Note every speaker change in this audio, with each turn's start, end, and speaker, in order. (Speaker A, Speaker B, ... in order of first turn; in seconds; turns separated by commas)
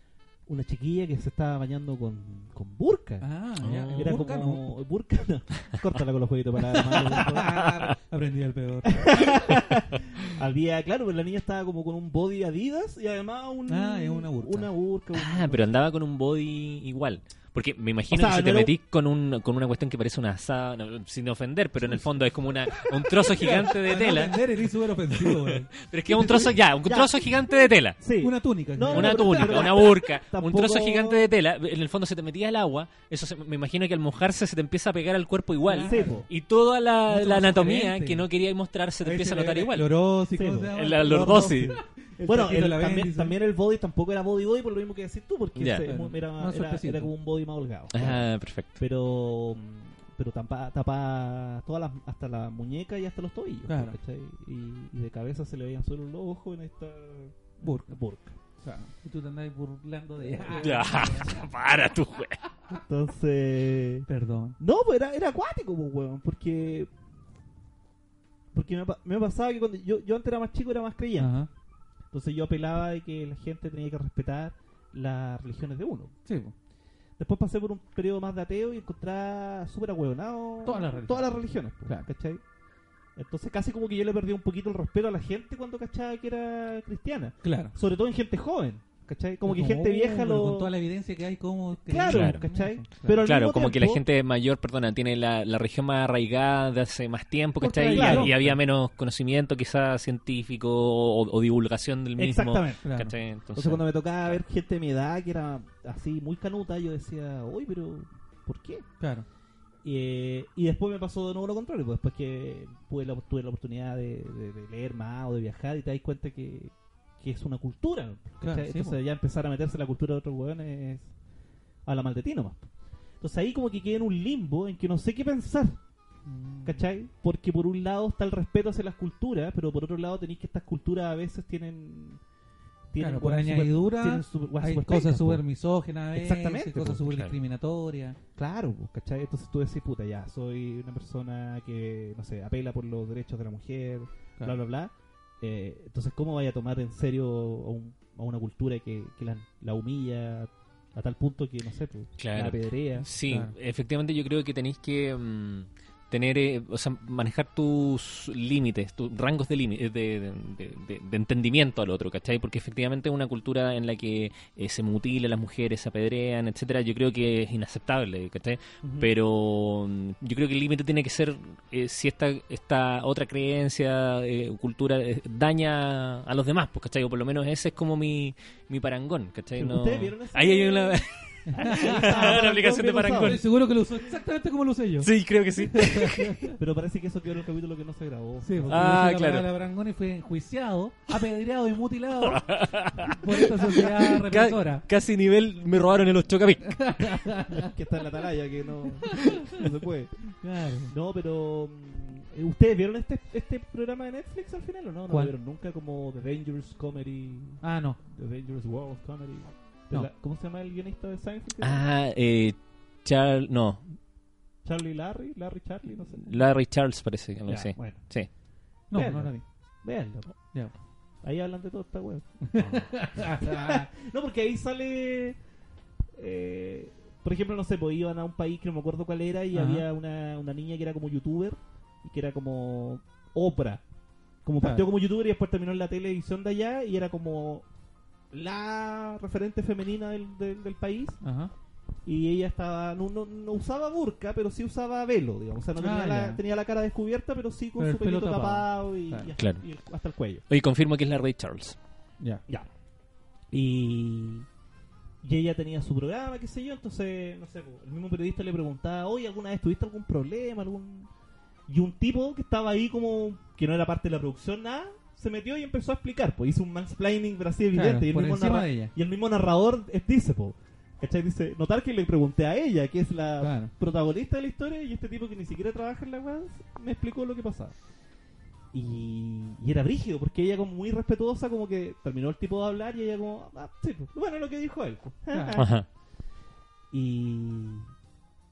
Speaker A: 0.5-3.3, Speaker B: 3.2-4.7, Speaker C: 3.6-4.3, Speaker A: 3.9-7.6, Speaker B: 6.9-9.5, Speaker A: 8.9-15.7, Speaker B: 13.7-14.7, Speaker C: 15.1-24.4, Speaker A: 18.1-18.7, Speaker A: 21.8-22.8, Speaker B: 23.3-26.5, Speaker C: 25.1-28.0, Speaker A: 26.1-31.3, Speaker B: 28.2-29.7, Speaker C: 28.9-40.0, Speaker B: 35.6-36.2, Speaker A: 35.8-36.3, Speaker B: 37.1-38.3, Speaker B: 39.0-43.4, Speaker A: 40.4-58.4, Speaker C: 40.7-41.8, Speaker C: 45.5-45.9, Speaker B: 45.8-47.1, Speaker C: 47.9-48.7, Speaker B: 53.7-54.0, Speaker B: 57.6-58.0, Speaker B: 58.6-61.5, Speaker C: 60.5-62.4, Speaker A: 62.7-64.1, Speaker B: 64.1-64.6, Speaker A: 64.6-66.9, Speaker A: 68.5-71.3, Speaker B: 71.2-71.5, Speaker A: 72.1-76.1, Speaker B: 76.3-76.5, Speaker A: 77.2-82.4, Speaker B: 80.6-82.1, Speaker A: 83.2-90.7, Speaker B: 87.4-87.7, Speaker B: 89.5-93.2, Speaker A: 91.9-94.0, Speaker C: 92.1-92.4, Speaker C: 93.2-104.4, Speaker B: 97.6-98.6, Speaker A: 97.7-98.5, Speaker A: 102.2-102.8, Speaker B: 102.8-103.1, Speaker A: 103.6-108.9, Speaker B: 109.0-109.3, Speaker A: 109.8-121.1, Speaker B: 118.4-119.0, Speaker A: 121.9-122.7, Speaker A: 123.2-125.8, Speaker B: 126.3-126.9, Speaker A: 126.7-132.2, Speaker A: 132.9-135.4, Speaker B: 133.0-138.2, Speaker A: 136.1-137.0, Speaker C: 137.0-137.4, Speaker A: 138.4-153.1, Speaker C: 152.2-183.4, Speaker B: 153.2-153.5, Speaker A: 168.8-169.1, Speaker A: 179.6-183.4, Speaker B: 181.5-182.4, Speaker B: 183.2-186.6, Speaker C: 185.0-186.3, Speaker A: 186.6-189.0, Speaker B: 188.4-194.8, Speaker C: 188.7-189.5, Speaker C: 192.2-197.2, Speaker B: 196.8-197.7, Speaker A: 197.6-200.3, Speaker B: 199.1-199.4, Speaker B: 200.4-200.9, Speaker A: 200.9-211.8, Speaker B: 207.6-208.0, Speaker C: 211.6-213.8, Speaker A: 214.7-216.3, Speaker C: 216.2-218.3, Speaker A: 217.5-218.1, Speaker B: 218.9-219.3, Speaker A: 218.9-220.3, Speaker A: 221.2-222.8, Speaker B: 222.4-223.9, Speaker A: 223.4-225.4, Speaker A: 226.1-233.8, Speaker B: 229.5-229.8, Speaker A: 234.4-237.7, Speaker B: 234.6-234.9, Speaker A: 238.3-241.2, Speaker B: 241.2-241.5, Speaker A: 242.1-250.4, Speaker B: 245.8-246.4, Speaker B: 247.8-249.3, Speaker C: 249.4-249.6, Speaker C: 250.5-251.8, Speaker A: 253.5-254.5, Speaker A: 255.2-261.1, Speaker A: 261.7-277.8, Speaker B: 267.7-268.9, Speaker B: 273.4-273.7, Speaker A: 278.7-285.7, Speaker B: 285.3-285.6, Speaker C: 285.6-285.9, Speaker A: 286.9-287.9